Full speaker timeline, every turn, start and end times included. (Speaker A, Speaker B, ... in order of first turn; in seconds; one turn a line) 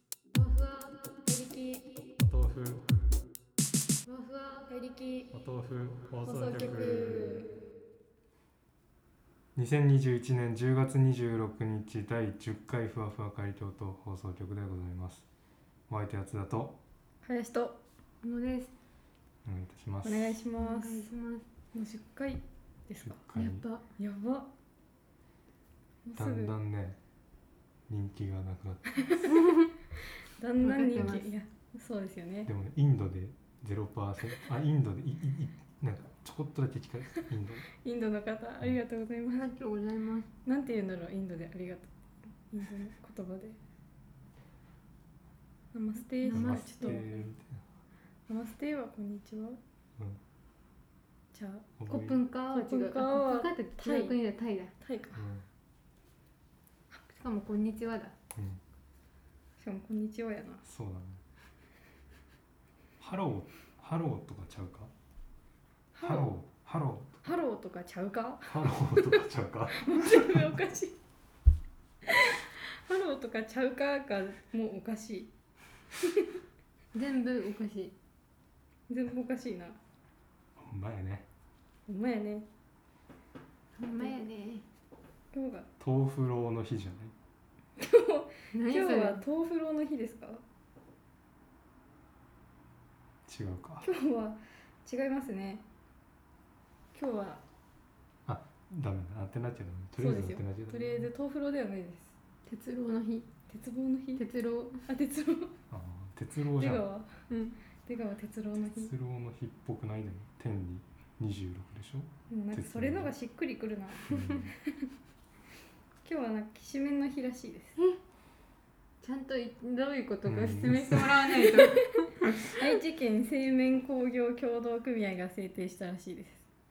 Speaker A: 0.3-1.2
Speaker B: 1.2-1.9
Speaker C: 2.2-3.0
Speaker A: 4.0-4.7
Speaker B: 4.7-5.3
Speaker C: 5.3-7.4
Speaker B: 6.2-7.5
Speaker C: 9.5-15.2
Speaker C: 15.9-16.8
Speaker B: 17.2-17.8
Speaker A: 18.2-18.7
Speaker C: 19.4-20.4
Speaker B: 20.0-21.1
Speaker A: 20.6-21.4
Speaker B: 21.7-23.2
Speaker C: 23.0-23.6
Speaker A: 23.3-23.8
Speaker B: 24.0-24.5
Speaker B: 26.1-26.5
Speaker C: 26.1-27.0
Speaker C: 27.9-29.0
Speaker B: 28.9-29.5
Speaker A: 29.2-29.7
Speaker B: 30.2-32.5
Speaker A: 30.6-31.3
Speaker C: 32.5-37.6
Speaker B: 37.8-39.5
Speaker A: 39.3-40.3
Speaker B: 40.5-43.6
Speaker B: 45.7-47.2
Speaker A: 46.2-47.0
Speaker C: 46.3-47.6
Speaker B: 48.3-49.6
Speaker B: 51.3-51.7
Speaker C: 51.8-52.2
Speaker A: 51.9-54.7
Speaker B: 52.5-54.1
Speaker B: 54.8-55.2
Speaker C: 55.1-55.4
Speaker A: 57.1-58.1
Speaker C: 58.3-58.6
Speaker B: 59.6-60.6
Speaker C: 60.6-61.2
Speaker C: 63.0-64.9
Speaker B: 65.9-66.3
Speaker C: 66.0-67.3
Speaker B: 67.2-71.0
Speaker C: 68.4-70.5
Speaker B: 72.0-75.3
Speaker B: 76.0-76.3
Speaker A: 76.9-77.9
Speaker B: 78.9-79.8
Speaker C: 80.6-81.3
Speaker B: 81.9-82.5
Speaker A: 83.8-84.6
Speaker B: 85.3-85.7
Speaker C: 85.8-87.1
Speaker B: 87.8-90.4
Speaker A: 88.5-89.2
Speaker C: 93.2-93.9
Speaker B: 93.8-95.6
Speaker B: 96.9-97.4
Speaker C: 98.2-101.1
Speaker B: 100.0-102.1
Speaker A: 102.5-103.3
Speaker B: 103.5-104.2
Speaker A: 104.2-104.8
Speaker B: 104.9-105.5
Speaker C: 105.7-106.8
Speaker B: 106.5-107.1
Speaker A: 107.3-107.5
Speaker B: 107.8-108.9
Speaker C: 108.6-113.1
Speaker B: 112.3-114.8
Speaker C: 114.1-114.5
Speaker B: 116.0-117.8
Speaker A: 119.0-122.2
Speaker C: 120.2-121.5
Speaker B: 121.6-121.9
Speaker B: 122.5-126.4